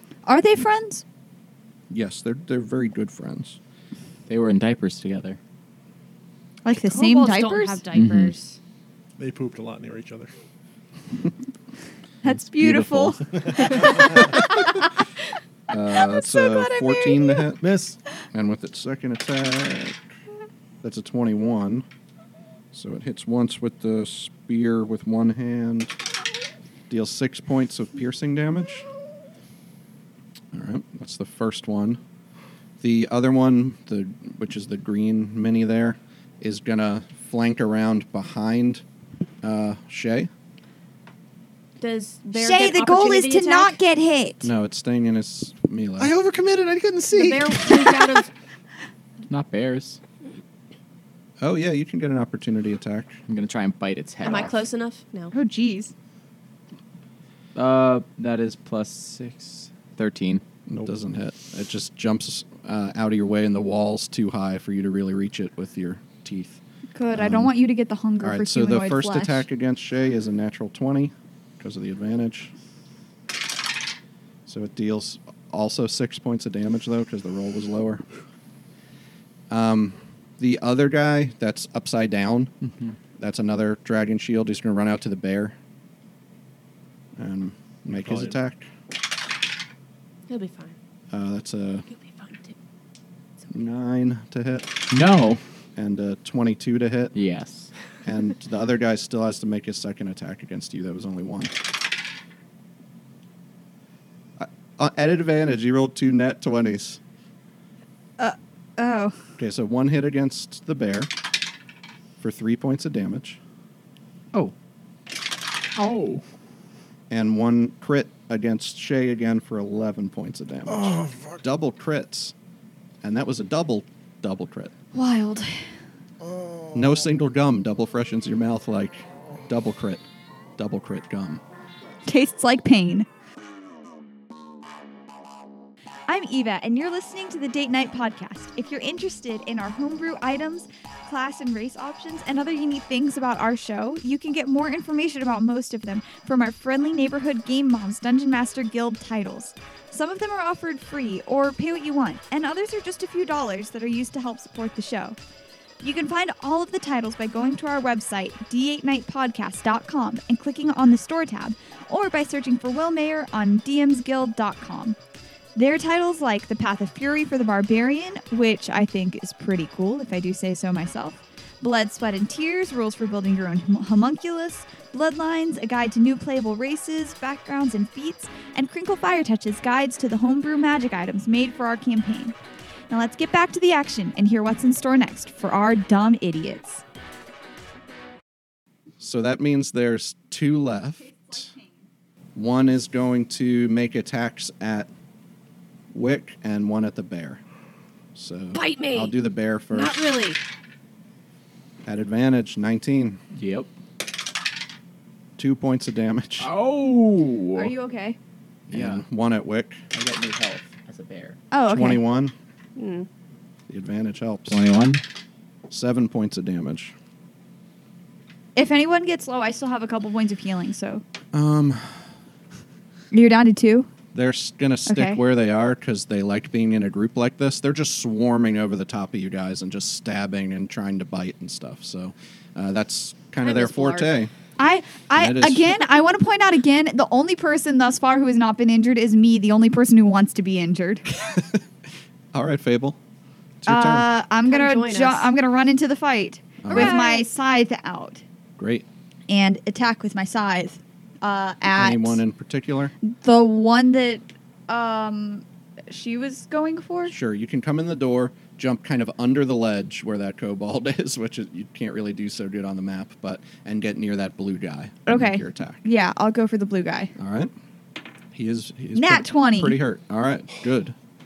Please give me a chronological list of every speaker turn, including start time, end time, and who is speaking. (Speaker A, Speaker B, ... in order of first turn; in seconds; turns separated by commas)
Speaker A: 0.2-1.0, Speaker B: 1.9-3.6, Speaker C: 4.3-5.4, Speaker A: 6.6-7.8, Speaker D: 6.7-8.6, Speaker C: 7.9-8.3, Speaker E: 9.2-10.3, Speaker A: 12.2-14.9, Speaker B: 12.6-13.1, Speaker E: 13.3-14.3, Speaker B: 15.7-17.7, Speaker A: 15.7-17.4, Speaker E: 17.6-18.0, Speaker B: 18.3-20.0, Speaker B: 20.8-21.9, Speaker B: 22.7-25.9, Speaker B: 26.9-28.9, Speaker B: 30.5-32.0, Speaker B: 32.8-38.8, Speaker B: 39.4-40.3, Speaker D: 41.8-43.8, Speaker A: 42.3-44.5, Speaker B: 44.4-46.1, Speaker E: 46.0-48.2, Speaker D: 47.1-48.3, Speaker C: 49.3-50.0, Speaker B: 51.4-53.2, Speaker C: 53.3-54.6, Speaker D: 54.2-55.3, Speaker A: 55.3-55.9, Speaker C: 57.5-60.4, Speaker B: 60.7-66.6, Speaker A: 66.9-69.5, Speaker B: 67.1-67.5, Speaker B: 68.2-72.5, Speaker B: 74.5-78.0, Speaker B: 79.5-82.5, Speaker B: 83.2-85.5, Speaker B: 87.2-88.7, Speaker E: 87.9-88.4, Speaker D: 90.3-90.8, Speaker B: 91.1-91.9, Speaker D: 91.9-92.6, Speaker B: 93.5-94.7, Speaker C: 94.9-95.4, Speaker B: 95.8-97.1, Speaker C: 97.1-97.7, Speaker B: 98.0-101.5, Speaker B: 104.4-107.0, Speaker A: 108.2-109.2, Speaker B: 109.4-111.1, Speaker B: 112.2-113.4, Speaker C: 115.8-116.2, Speaker B: 117.1-122.3, Speaker E: 120.8-121.4, Speaker B: 123.0-124.7, Speaker A: 124.9-125.7, Speaker B: 126.7-130.0, Speaker B: 130.6-131.4, Speaker A: 132.0-133.1, Speaker A: 136.1-155.2, Speaker A: 155.8-165.0, Speaker A: 165.5-182.4, Speaker A: 182.9-186.8, Speaker B: 189.0-191.5, Speaker A: 191.1-191.7, Speaker B: 192.3-194.9, Speaker B: 195.9-197.4, Speaker B: 198.1-200.0, Speaker D: 198.5-199.2, Speaker D: 199.7-200.4, Speaker B: 201.8-203.2, Speaker C: 203.3-203.7, Speaker B: 205.4-206.5, Speaker C: 206.4-207.7, Speaker A: 207.5-208.2, Speaker B: 208.7-209.8, Speaker C: 208.7-209.0, Speaker C: 209.9-211.4, Speaker A: 211.5-212.0, Speaker B: 211.7-212.3, Speaker D: 212.8-213.1, Speaker B: 213.7-214.6, Speaker C: 214.5-215.0, Speaker B: 215.7-216.9, Speaker A: 218.5-221.0, Speaker B: 221.3-221.9, Speaker A: 223.1-223.9, Speaker B: 224.1-234.3, Speaker A: 224.8-225.2, Speaker D: 233.4-234.3, Speaker A: 234.6-241.0, Speaker B: 235.2-235.7, Speaker B: 241.1-241.6, Speaker B: 242.3-243.0, Speaker B: 243.6-244.1, Speaker A: 243.7-248.2, Speaker D: 244.4-245.3, Speaker B: 246.6-247.0, Speaker D: 246.7-247.2, Speaker B: 248.6-248.9, Speaker A: 249.3-252.2, Speaker B: 251.7-252.9, Speaker A: 253.0-257.1, Speaker B: 257.1-265.8, Speaker A: 265.1-267.1, Speaker B: 267.2-267.5, Speaker B: 268.3-270.9, Speaker A: 268.9-269.8